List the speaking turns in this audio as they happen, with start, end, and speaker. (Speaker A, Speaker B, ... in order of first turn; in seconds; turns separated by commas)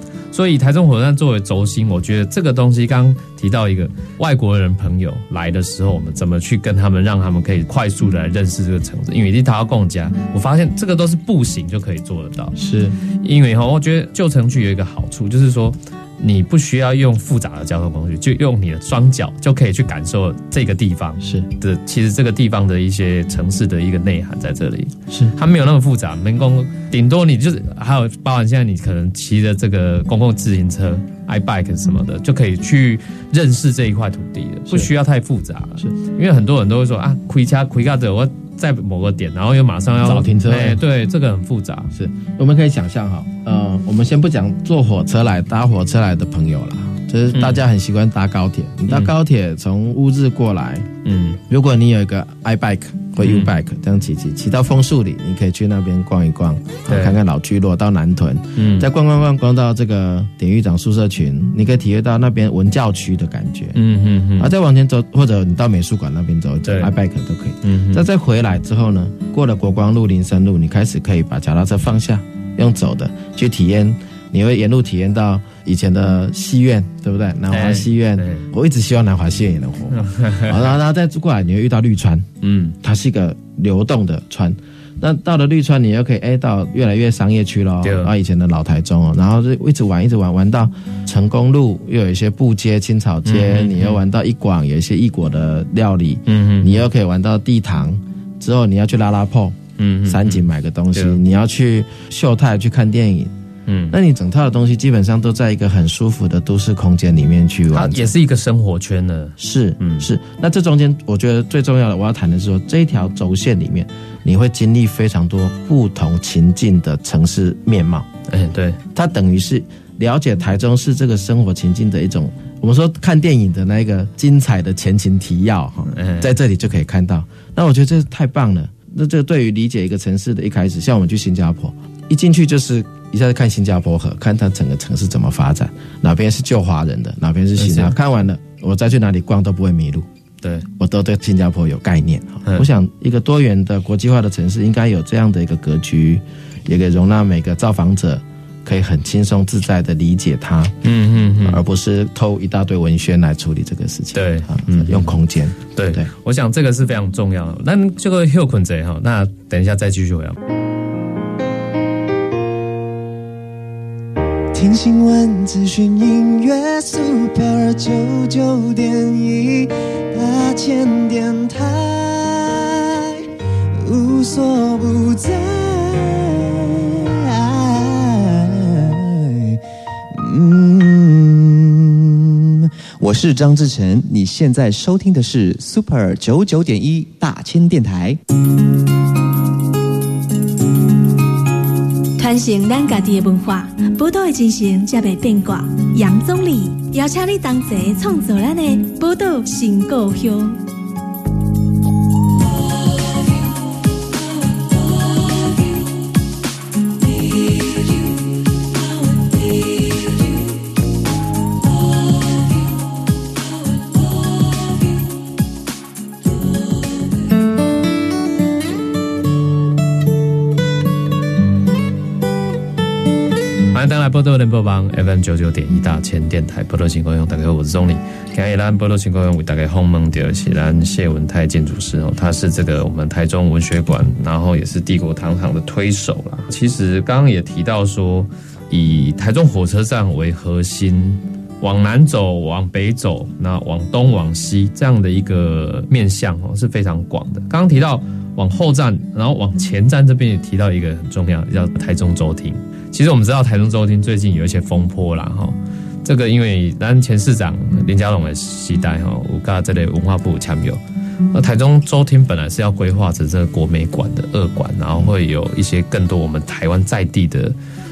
Speaker A: 0.3-12.6, Speaker B: 12.6-12.9, Speaker A: 13.2-41.9, Speaker B: 21.2-21.5, Speaker B: 40.0-40.8, Speaker B: 41.9-50.9, Speaker A: 47.3-47.6, Speaker A: 51.0-51.4, Speaker B: 51.5-63.8, Speaker A: 53.2-53.5, Speaker A: 56.9-57.2, Speaker A: 58.5-58.9, Speaker A: 63.7-64.5, Speaker B: 64.4-82.3, Speaker A: 66.6-66.9, Speaker A: 67.6-68.0, Speaker A: 77.5-78.5, Speaker A: 80.0-80.5, Speaker A: 82.4-82.7, Speaker B: 82.8-103.3, Speaker A: 87.8-88.1, Speaker A: 93.2-94.0, Speaker A: 96.3-96.8, Speaker A: 99.8-100.4, Speaker A: 100.9-101.2, Speaker A: 103.7-104.0, Speaker B: 103.9-108.1, Speaker A: 107.7-110.1, Speaker B: 109.4-118.1, Speaker A: 118.3-118.8, Speaker B: 118.9-140.1, Speaker A: 125.9-126.3, Speaker A: 137.6-137.9, Speaker A: 140.4-140.7, Speaker B: 140.8-150.8, Speaker A: 150.8-151.6, Speaker B: 151.4-156.1, Speaker A: 154.1-155.2, Speaker A: 155.7-160.4, Speaker C: 164.5-173.2, Speaker C: 173.8-179.6, Speaker C: 180.1-188.2, Speaker D: 192.2-200.6, Speaker A: 223.7-260.8, Speaker A: 261.3-267.6